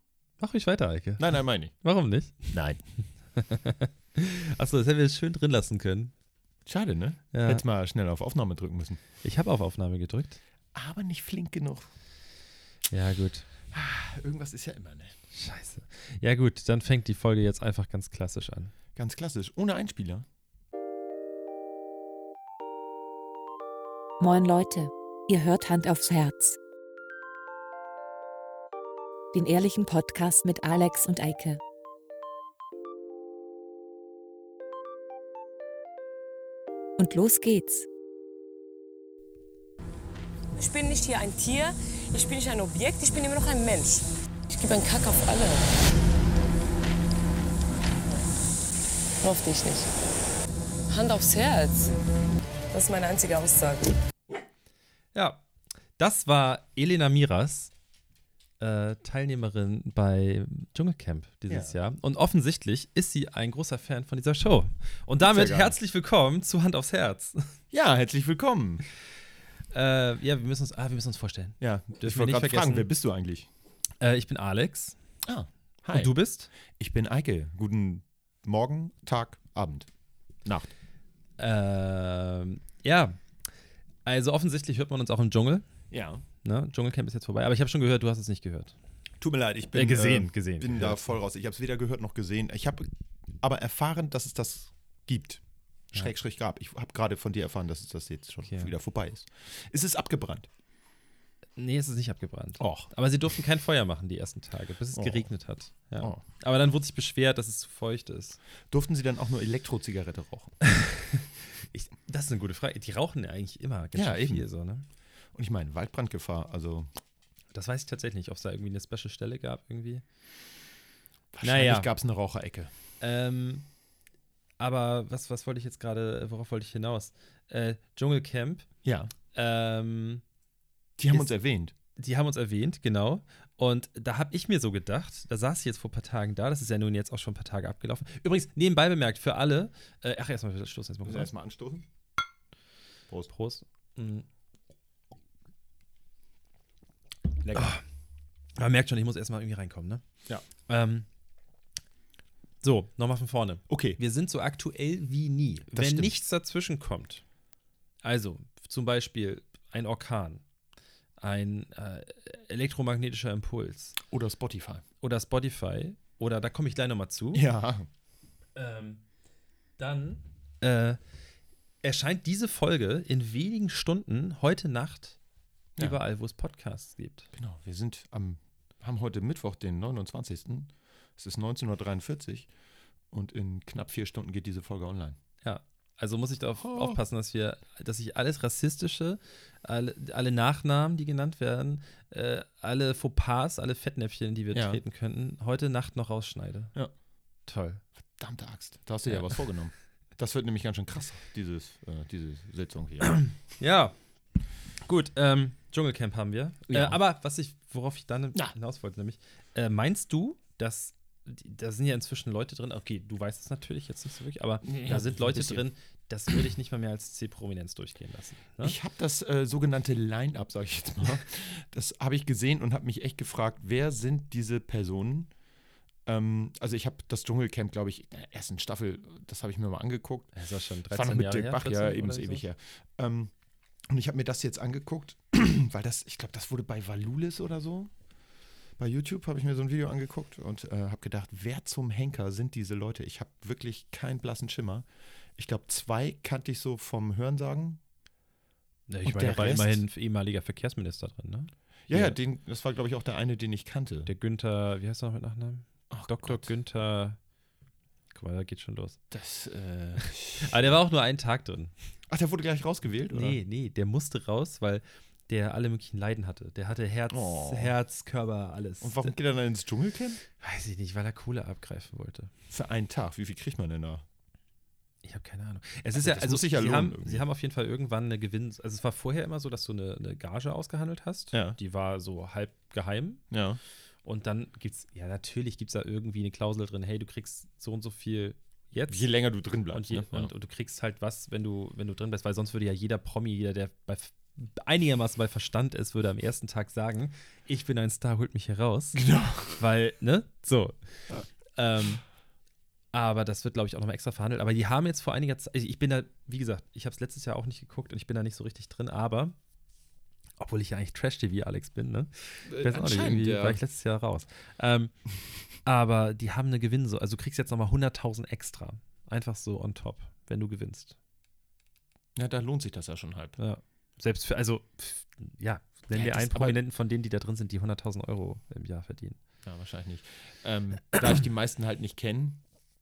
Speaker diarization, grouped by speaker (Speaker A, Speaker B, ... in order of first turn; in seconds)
Speaker A: 0.4-2.5, 3.3-6.1, 7.3-7.6, 9.2-10.4, 12.9-13.5, 15.3-18.7, 55.1-55.4, 56.0-57.7, 58.6-67.5, 69.7-72.9, 74.0-75.0, 75.9-76.5, 81.4-83.2, 84.0-85.6, 86.4-88.7, 89.7-91.1, 98.5-98.7, 101.6-108.4, 110.6-114.8, 117.5-120.0, 121.4-121.9, 123.0-123.7, 124.6-128.6, 129.3-130.2, 132.0-141.3, 143.3-144.3, 147.5-147.8, 148.6-150.0, 150.6-151.1, 152.6-157.2, 158.0-160.4, 161.2-163.9, 165.0-167.4, 168.5-169.0, 169.8-171.0, 171.8-175.2, 175.8-177.3, 185.4-196.7, 197.5-197.8, 199.1-199.4, 203.0-203.9, 204.8-218.8, 230.3-232.4, 248.9-252.2, 254.1-257.2, 258.1-259.0, 260.4-261.7, 263.1-269.1, 270.4-272.3, 275.0-283.2, 284.0-289.1, 289.7-300.8, 301.4-302.0, 302.9-309.3, 310.4-315.0, 315.6-320.9, 323.4-329.2
Speaker B: 1.2-1.7, 2.5-2.8, 6.7-9.0, 10.7-11.9, 13.7-15.1, 18.9-20.2, 61.5-61.8, 65.2-65.7, 67.7-68.8, 71.6-73.5, 75.2-76.1, 76.8-79.9, 80.4-80.7, 85.9-86.2, 89.2-92.9, 93.4-100.5, 102.6-102.9, 104.9-105.3, 108.7-110.5, 113.9-114.4, 115.3-116.9, 121.3-122.7, 128.8-129.1, 131.0-131.7, 141.0-141.8, 147.4-147.8, 153.7-154.0, 155.7-156.1, 164.0-164.8, 167.3-167.9, 177.3-182.5, 183.1-185.2, 186.6-187.0, 194.5-194.8, 198.2-203.2, 206.7-207.0, 214.6-215.6, 218.6-225.3, 226.0-230.3, 230.9-233.3, 233.9-237.9, 238.8-247.8, 249.0-249.8, 251.9-254.1, 255.9-256.5, 259.1-260.7, 262.1-263.4, 267.1-267.7, 268.8-270.2, 272.5-274.0, 275.9-277.2, 281.3-281.6, 283.3-283.6, 288.9-290.3, 298.9-299.6, 312.4-313.6, 322.1-323.4, 325.9-326.6, 329.4-332.4
Speaker C: 24.2-26.6, 29.3-31.6, 37.0-37.9
Speaker D: 40.5-45.8, 49.2-49.9, 50.9-51.9, 52.7-54.0